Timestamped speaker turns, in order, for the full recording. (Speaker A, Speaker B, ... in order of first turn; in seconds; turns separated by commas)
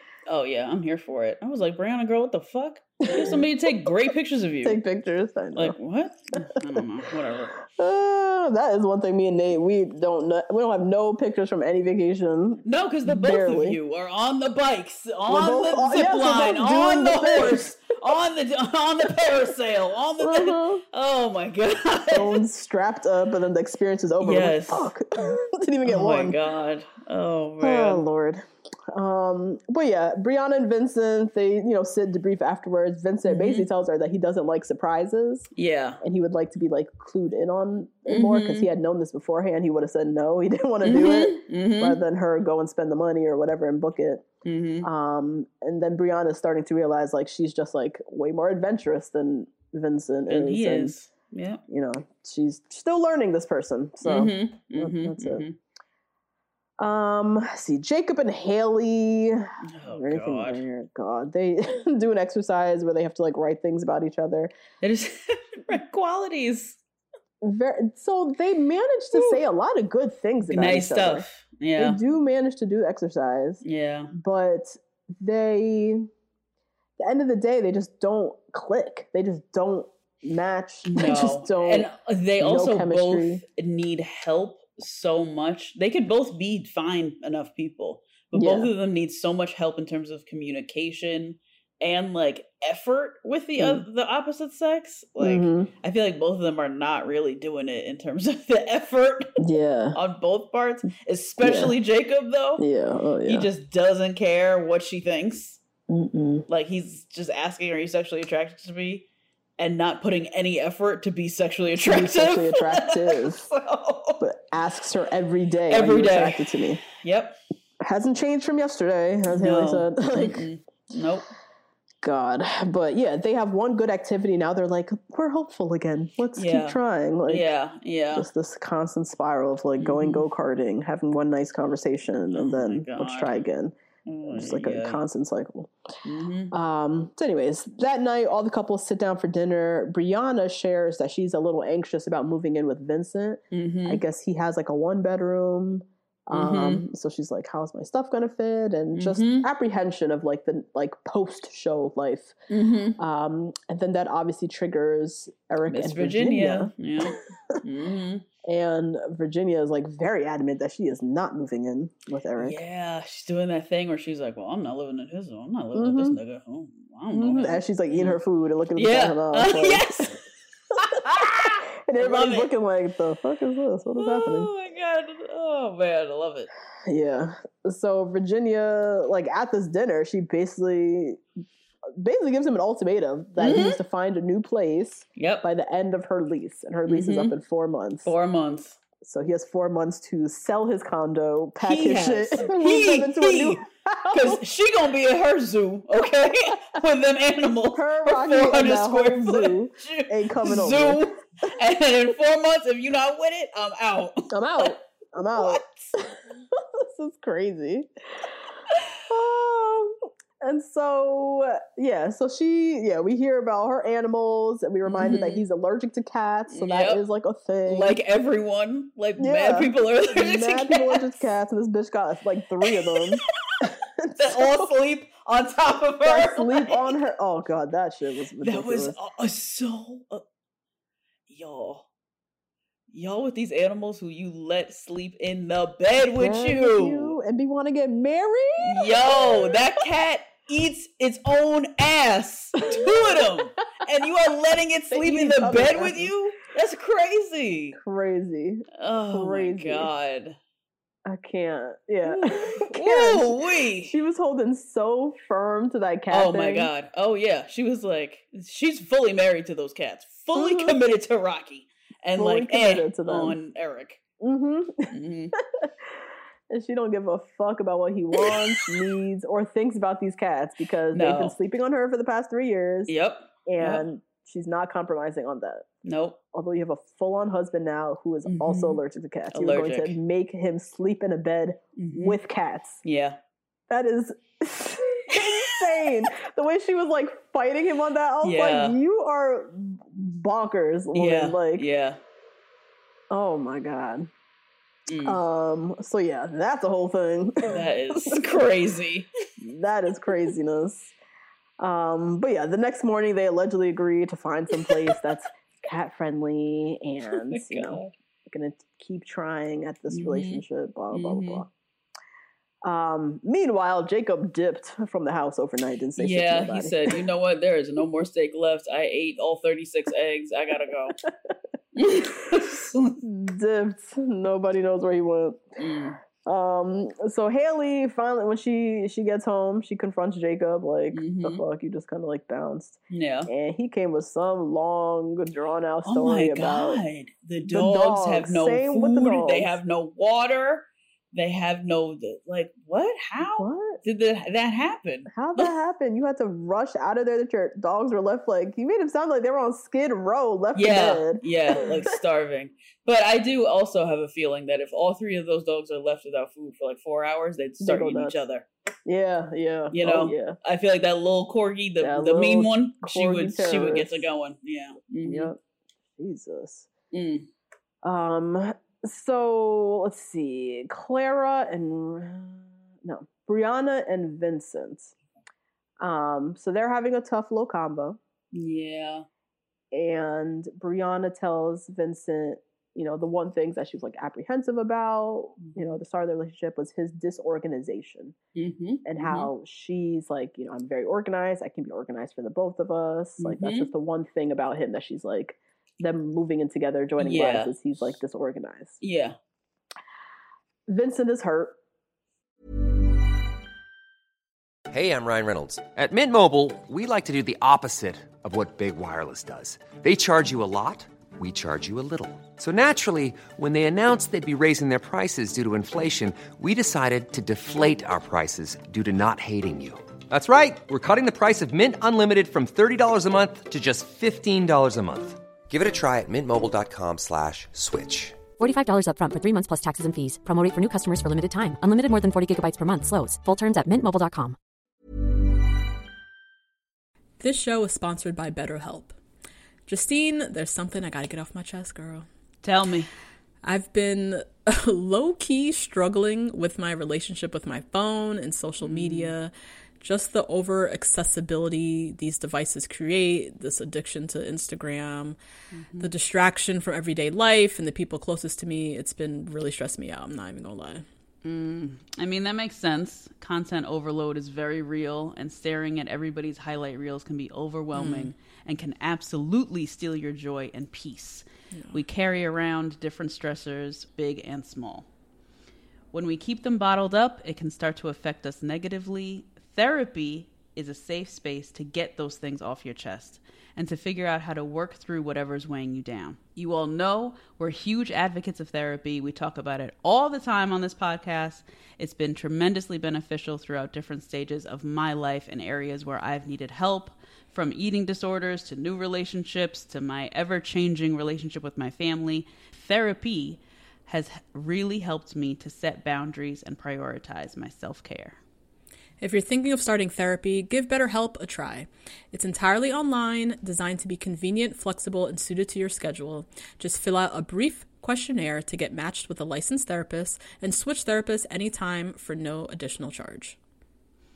Speaker A: 0.3-4.8, Speaker B: 3.0-3.7, Speaker B: 4.6-5.8, Speaker A: 5.5-7.6, Speaker B: 7.8-13.8, Speaker A: 12.6-22.4, Speaker B: 15.3-17.7, Speaker B: 20.2-20.8, Speaker B: 22.1-26.4, Speaker A: 24.2-24.9, Speaker A: 25.9-28.0, Speaker B: 27.6-35.5, Speaker A: 33.3-33.7, Speaker A: 35.5-36.0, Speaker B: 36.0-44.2, Speaker A: 38.1-38.7, Speaker A: 40.8-42.0, Speaker A: 44.4-44.9, Speaker B: 44.8-51.0, Speaker A: 50.3-51.6, Speaker B: 51.7-55.4, Speaker A: 54.0-55.5, Speaker B: 56.8-64.5, Speaker A: 59.6-60.6, Speaker A: 64.8-66.8, Speaker B: 67.4-71.2, Speaker A: 69.1-69.4, Speaker A: 70.5-72.0, Speaker B: 71.8-73.6, Speaker A: 73.6-74.1, Speaker B: 74.1-76.1, Speaker B: 77.0-83.4, Speaker A: 80.8-99.4, Speaker B: 88.3-88.7, Speaker B: 93.6-93.8, Speaker B: 95.2-95.7, Speaker B: 99.4-100.0, Speaker A: 99.9-102.6, Speaker B: 101.4-101.7, Speaker B: 102.6-103.5, Speaker A: 103.3-105.6, Speaker B: 105.9-106.5, Speaker A: 106.5-109.0, Speaker A: 109.6-114.2, Speaker B: 111.7-113.4, Speaker B: 114.2-116.8, Speaker A: 115.7-117.4, Speaker B: 117.8-120.5, Speaker A: 119.3-121.3, Speaker B: 122.0-127.5, Speaker A: 126.3-128.3, Speaker B: 128.1-133.7, Speaker A: 129.8-130.2, Speaker A: 132.3-133.5, Speaker A: 134.1-135.0, Speaker B: 134.3-135.7, Speaker A: 136.0-136.5, Speaker B: 136.5-152.3, Speaker A: 143.5-144.0, Speaker A: 146.3-146.8, Speaker A: 148.9-149.5, Speaker A: 152.5-153.0, Speaker B: 153.0-157.6, Speaker A: 155.7-158.2, Speaker B: 158.4-162.6, Speaker A: 162.4-168.2, Speaker B: 165.7-166.2, Speaker B: 167.1-170.1, Speaker A: 168.8-170.2, Speaker A: 170.8-172.5, Speaker B: 170.8-174.5, Speaker A: 174.0-176.5, Speaker B: 176.9-181.2, Speaker B: 181.9-188.1, Speaker A: 183.4-183.8, Speaker A: 185.2-185.5, Speaker A: 186.9-187.3, Speaker A: 188.0-188.8, Speaker B: 189.0-194.4, Speaker A: 191.6-204.7, Speaker B: 197.7-201.0, Speaker B: 204.3-207.9, Speaker A: 205.4-205.8, Speaker B: 209.1-218.0, Speaker A: 214.8-215.4, Speaker A: 216.5-217.0, Speaker A: 217.7-221.2, Speaker B: 219.2-224.7, Speaker A: 223.0-227.0, Speaker B: 226.0-228.9, Speaker A: 228.4-230.2, Speaker A: 231.3-231.9, Speaker A: 232.9-237.2, Speaker B: 236.2-239.6, Speaker A: 238.6-247.8, Speaker B: 242.6-243.5, Speaker B: 244.9-246.1, Speaker B: 247.7-249.9, Speaker A: 248.7-250.4, Speaker B: 251.1-256.7, Speaker A: 252.0-254.0, Speaker A: 256.1-264.0, Speaker B: 260.3-260.8, Speaker B: 262.1-263.4, Speaker B: 264.2-264.9, Speaker A: 264.9-265.3, Speaker B: 266.5-272.9, Speaker A: 268.2-268.8, Speaker A: 270.9-271.3, Speaker A: 272.9-273.8, Speaker B: 273.4-275.7, Speaker A: 275.8-276.2, Speaker B: 276.3-282.8, Speaker A: 278.2-278.8, Speaker A: 279.3-280.0, Speaker A: 281.8-282.2, Speaker A: 282.8-283.2, Speaker B: 283.7-291.6, Speaker A: 285.1-285.6, Speaker A: 288.2-288.8, Speaker A: 290.9-292.0, Speaker B: 293.1-294.1, Speaker A: 294.9-295.2, Speaker B: 295.0-298.4, Speaker A: 297.5-299.1, Speaker B: 299.4-300.9, Speaker B: 301.6-311.5, Speaker A: 304.6-304.9, Speaker A: 307.3-307.9, Speaker A: 309.9-311.4, Speaker B: 312.6-317.0, Speaker A: 316.0-321.0, Speaker A: 321.7-323.0, Speaker B: 323.0-325.4, Speaker A: 325.6-326.0, Speaker B: 326.2-336.8, Speaker A: 330.9-331.4, Speaker A: 332.9-333.3, Speaker A: 335.9-345.5, Speaker B: 337.4-339.6, Speaker B: 343.4-343.8, Speaker B: 345.1-351.9, Speaker A: 350.5-358.5, Speaker B: 357.6-358.2, Speaker B: 358.9-360.4, Speaker A: 359.7-365.3, Speaker B: 361.8-364.0, Speaker B: 365.0-365.4, Speaker B: 365.9-366.7, Speaker A: 366.9-367.3, Speaker B: 367.8-374.9, Speaker B: 375.8-378.0, Speaker A: 378.3-379.1, Speaker B: 379.7-388.1, Speaker A: 388.4-389.3, Speaker B: 388.8-398.8, Speaker A: 393.2-393.7, Speaker A: 397.0-397.5, Speaker A: 398.8-399.1, Speaker B: 400.7-401.6, Speaker C: 404.7-428.3, Speaker D: 428.4-434.4, Speaker E: 437.2-438.9, Speaker E: 439.7-442.1, Speaker A: 442.4-442.9, Speaker E: 443.4-455.2, Speaker A: 448.6-449.1, Speaker A: 455.5-455.9, Speaker E: 455.8-460.8, Speaker A: 461.2-474.9, Speaker E: 467.7-468.1, Speaker E: 471.5-471.8, Speaker A: 475.9-508.2, Speaker E: 509.0-523.4